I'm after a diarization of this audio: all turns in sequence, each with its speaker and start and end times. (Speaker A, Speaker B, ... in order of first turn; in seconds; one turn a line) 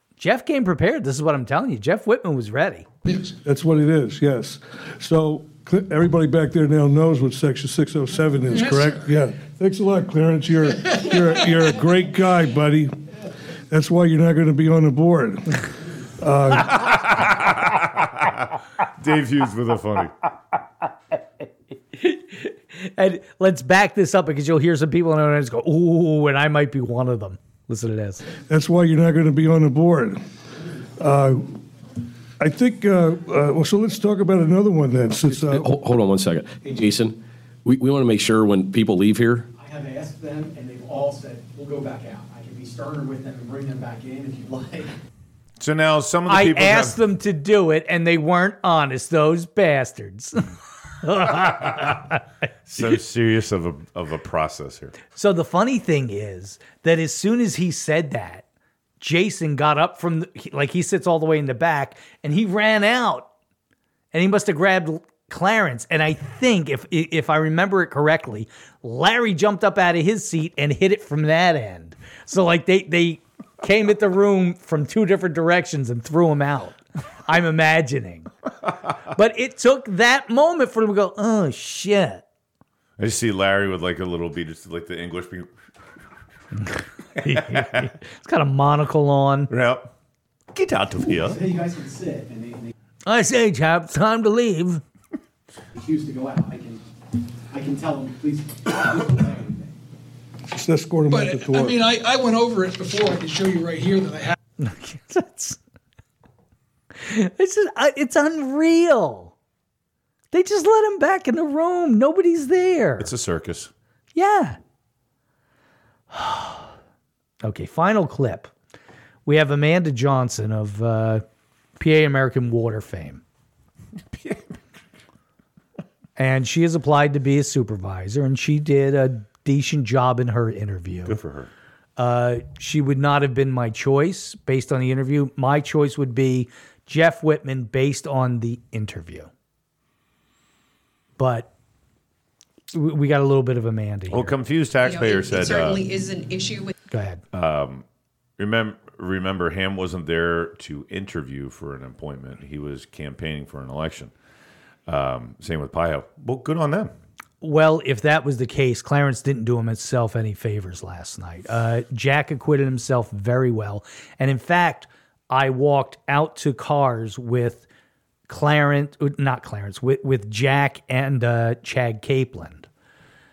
Speaker A: 0.2-2.9
Speaker B: 3.3-12.9
Speaker B: 13.7-15.7
Speaker B: 16.2-17.1
Speaker C: 16.8-20.1
Speaker A: 21.9-28.2
Speaker B: 28.4-30.2
Speaker B: 31.0-31.6
Speaker B: 32.4-35.7
Speaker D: 35.3-39.5
Speaker E: 39.6-44.9
Speaker C: 45.6-47.0
Speaker A: 46.3-50.5
Speaker A: 51.0-52.2
Speaker C: 52.7-54.9
Speaker A: 55.1-58.4
Speaker A: 59.0-63.3
Speaker A: 64.1-78.3
Speaker A: 79.1-82.2
Speaker C: 83.0-85.5
Speaker A: 87.2-89.5
Speaker C: 87.2-87.9
Speaker C: 89.5-89.9
Speaker C: 90.5-91.4
Speaker E: 91.2-92.7
Speaker A: 93.1-94.8
Speaker E: 95.7-96.8
Speaker E: 97.5-99.7
Speaker B: 100.5-101.8
Speaker F: 101.1-104.4
Speaker A: 104.6-105.6
Speaker A: 107.0-109.3
Speaker A: 110.3-113.1
Speaker C: 113.0-113.7
Speaker A: 114.2-114.6
Speaker A: 116.1-116.7
Speaker A: 117.4-118.5
Speaker A: 119.3-121.2
Speaker A: 121.8-123.2
Speaker C: 124.1-124.6
Speaker A: 126.2-131.2
Speaker C: 131.1-131.5
Speaker A: 132.0-139.3
Speaker A: 141.2-141.5
Speaker A: 142.7-144.3
Speaker C: 144.1-145.8
Speaker G: 144.8-146.8
Speaker A: 146.9-147.2
Speaker C: 147.3-147.8
Speaker C: 148.4-154.1
Speaker C: 154.9-156.9
Speaker A: 157.4-167.7
Speaker A: 168.3-172.7